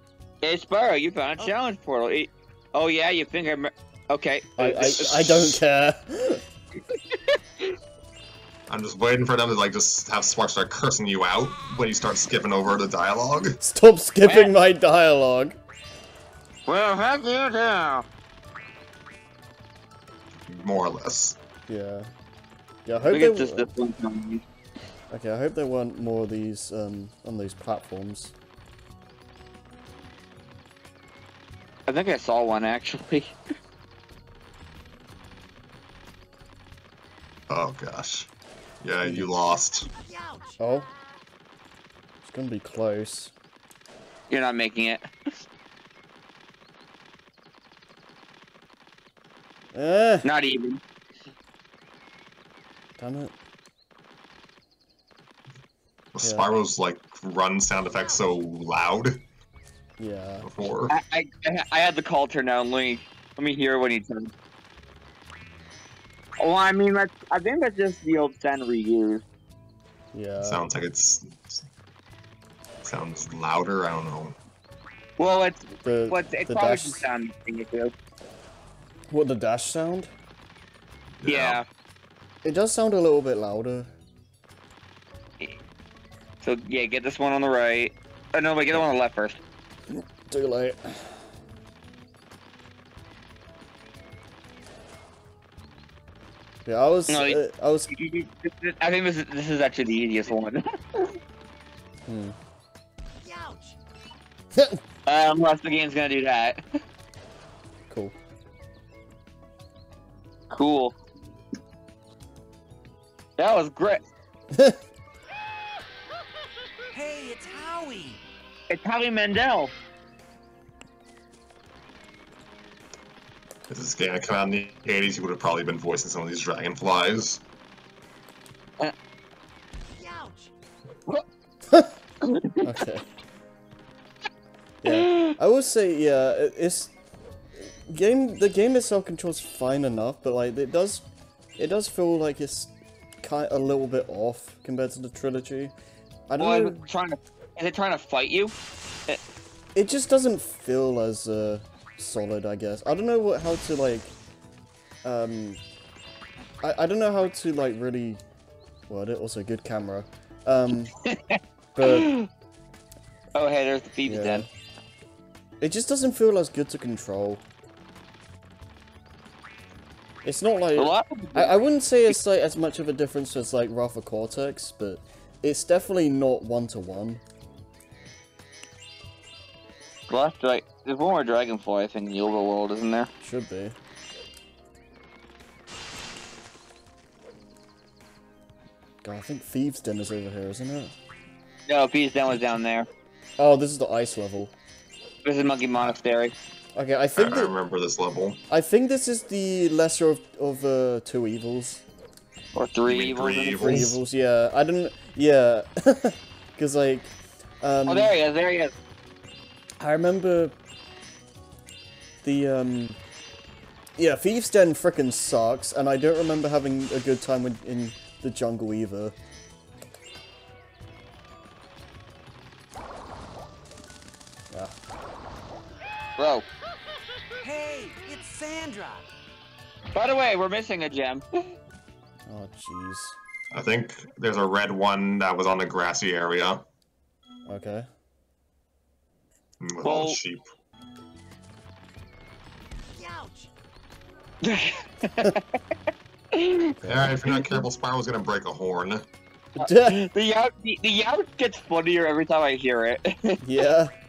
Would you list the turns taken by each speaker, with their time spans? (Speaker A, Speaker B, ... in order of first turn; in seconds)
Speaker A: 0.4-5.2, 6.9-7.7, 14.2-14.5, 16.7-18.1, 23.1-24.4, 31.9-33.4, 44.3-45.1, 50.2-50.8, 60.9-64.3, 66.4-69.2, 75.2-77.9, 81.3-81.7, 86.4-89.4, 97.1-101.1, 105.1-106.6, 110.5-111.0, 113.4-114.0, 118.7-119.7, 132.2-132.6, 134.9-135.3, 146.4-148.5, 161.1-162.3, 163.3-164.4, 170.8-171.5, 180.1-183.1, 191.7-192.9, 195.2-196.3, 202.6-203.8, 207.9-208.7, 226.2-226.5, 229.9-231.2, 239.8-240.2, 244.4-245.6, 246.3-246.7, 249.6-253.4
Speaker B: 4.6-6.4, 13.6-15.6, 21.7-22.1, 22.9-23.7, 25.1-28.3, 40.6-40.9, 42.2-43.3, 49.7-50.3, 53.0-53.3, 60.0-60.5, 70.1-70.6, 75.8-77.0, 79.1-80.1, 82.4-83.9, 90.0-91.2, 96.7-97.9, 102.1-102.4, 104.5-104.8, 107.9-108.2, 114.5-114.8, 131.7-131.9, 132.6-133.1, 134.8-136.9, 137.6-141.0, 141.6-145.7, 146.3-146.8, 149.8-154.1, 155.0-155.6, 156.6-158.2, 158.9-160.9, 161.8-162.1, 164.1-164.5, 165.6-167.4, 170.2-177.2, 183.2-183.8, 189.0-190.9, 193.4-194.5, 196.8-197.5, 198.5-201.8, 203.6-208.1, 209.8-210.6, 212.2-213.0, 214.0-219.2, 232.3-233.2, 237.5-237.9, 246.7-247.5, 249.6-250.1, 253.4-253.9
Speaker C: 5.0-5.6, 8.7-13.6, 20.4-21.4, 37.5-38.3, 38.8-39.9, 56.1-59.2, 60.4-61.0, 70.4-71.6, 72.8-74.4, 81.2-81.6, 123.7-127.4, 197.2-198.4, 202.9-204.0, 233.5-236.6, 239.6-240.4, 246.8-249.1
Speaker D: 116.9-118.2, 130.0-130.4, 227.4-229.1